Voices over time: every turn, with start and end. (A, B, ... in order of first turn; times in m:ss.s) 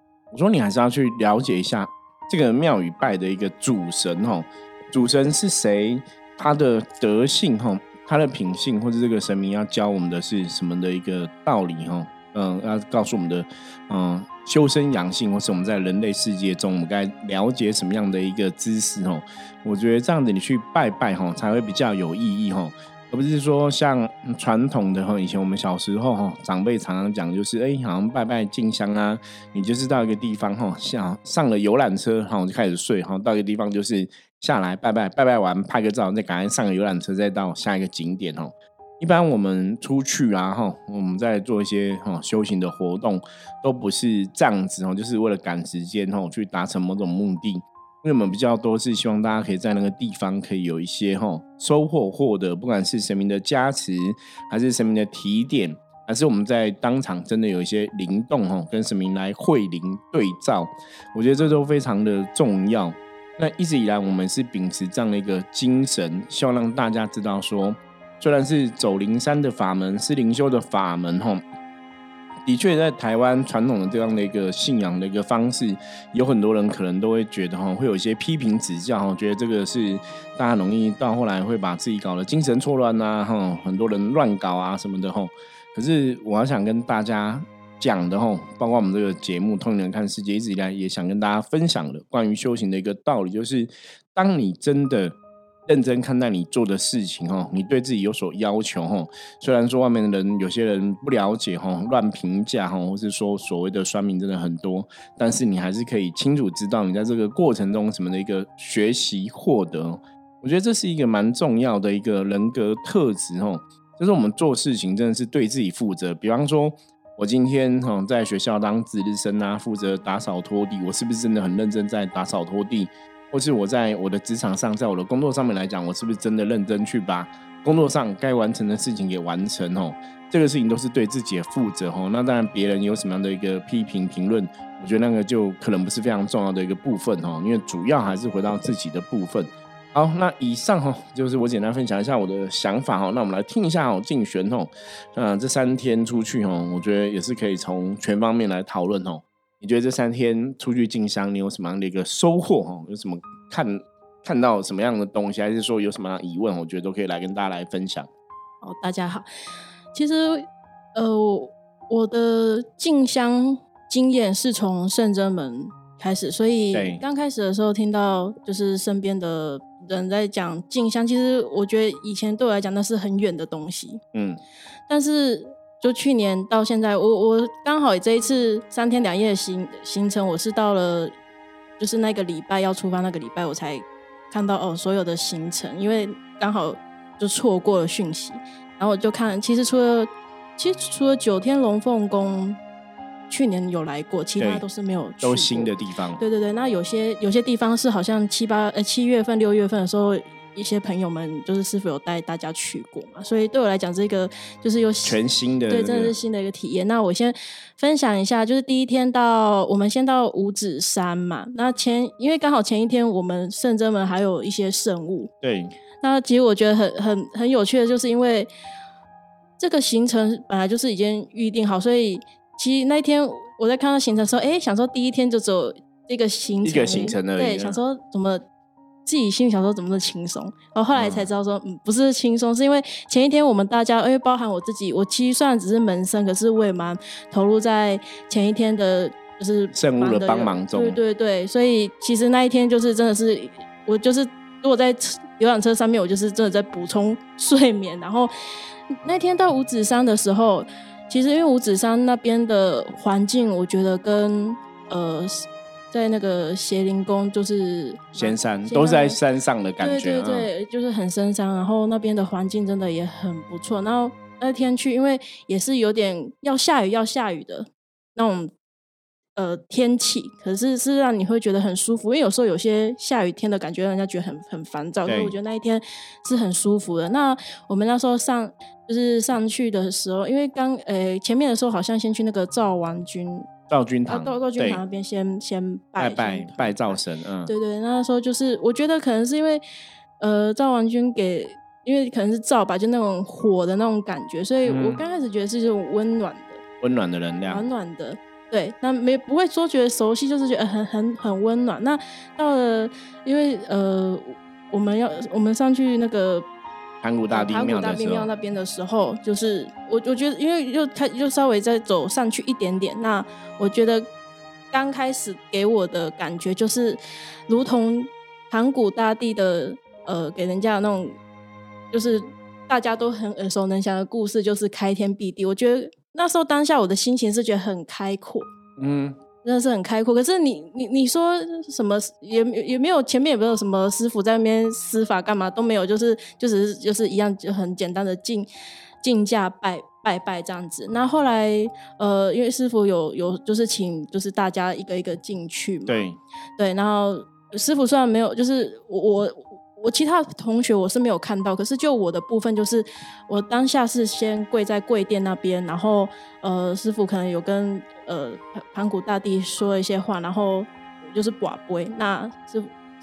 0:00.3-1:11.4 A
1:12.4-1:35.2 A
1:35.7-2:38.1 A
2:38.6-2:39.3 B
2:39.9-2:54.0 B
2:46.7-2:47.0 A
2:54.1-2:54.4 A
2:54.9-3:01.1 B
3:01.8-3:12.6 B
3:13.3-3:25.2 B
3:14.4-3:14.6 A
3:15.2-3:16.2 A
3:25.0-3:26.1 A
3:25.7-3:35.3 B
3:35.4-3:35.7 A
3:36.0-3:38.5 B
3:39.6-3:48.4 B
3:46.6-3:47.8 A
3:49.0-4:08.3 B
3:50.9-3:51.3 A
3:59.7-4:01.0 A
4:09.0-4:19.2 B
4:18.2-4:20.5 A
4:19.8-4:28.5 B
4:29.4-4:43.5 B
4:35.0-4:35.3 A
4:43.7-4:44.8 A
4:44.1-4:49.6 B
4:46.0-4:47.5 A
4:50.2-4:56.6 B
4:54.6-4:55.0 A
4:56.8-4:57.7 A
4:57.5-5:06.4 B
5:07.0-5:08.3 A
5:07.3-5:14.0 B
5:14.7-5:21.2 B
5:21.9-5:28.5 B
5:28.8-5:29.2 A
5:29.4-5:38.5 B
5:39.0-5:46.0 B
5:45.9-5:46.2 A
5:46.6-6:02.7 B